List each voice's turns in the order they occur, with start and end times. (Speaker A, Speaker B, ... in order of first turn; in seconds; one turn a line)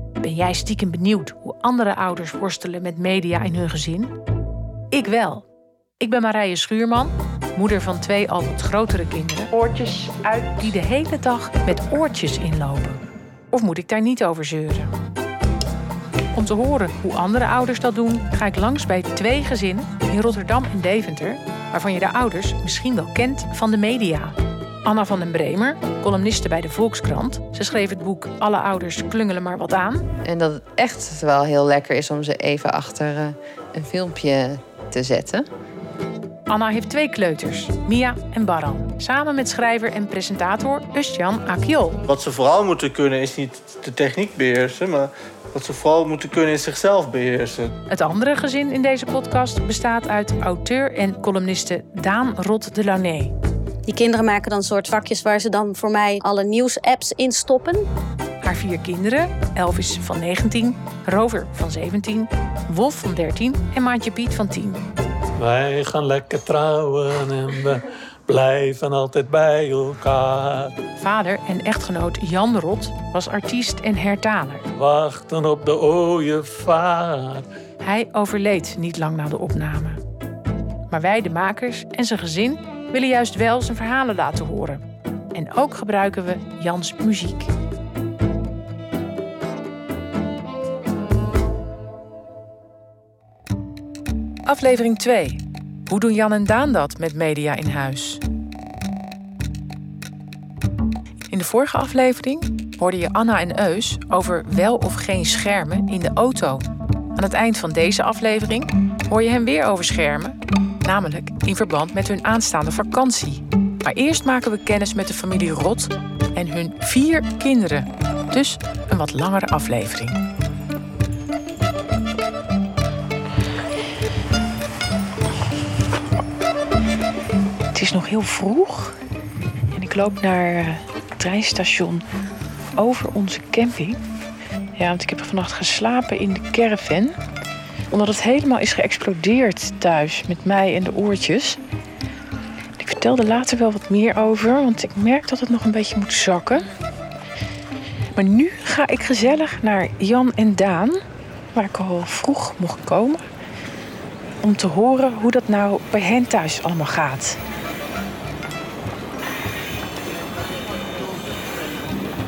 Speaker A: 0.2-4.1
Speaker A: 4.9-5.5
Speaker A: 6.0-14.9
Speaker A: 16.3-30.0
Speaker B: 30.2-35.5
Speaker A: 36.5-42.0
Speaker C: 42.1-47.7
Speaker A: 47.9-53.3
Speaker D: 53.9-57.9
Speaker A: 58.4-64.8
Speaker E: 65.4-70.7
Speaker A: 71.0-74.6
Speaker E: 74.7-77.4
Speaker A: 77.8-80.0
Speaker A: 80.9-84.8
Speaker A: 85.3-87.5
Speaker A: 94.5-98.2
Speaker A: 101.3-120.2
Speaker A: 127.7-128.9
Speaker A: 129.7-132.0
Speaker A: 132.7-134.0
Speaker A: 134.8-137.1
Speaker A: 137.9-141.6
Speaker A: 142.8-146.7
Speaker A: 148.1-151.0
Speaker A: 151.5-153.2
Speaker A: 154.4-157.4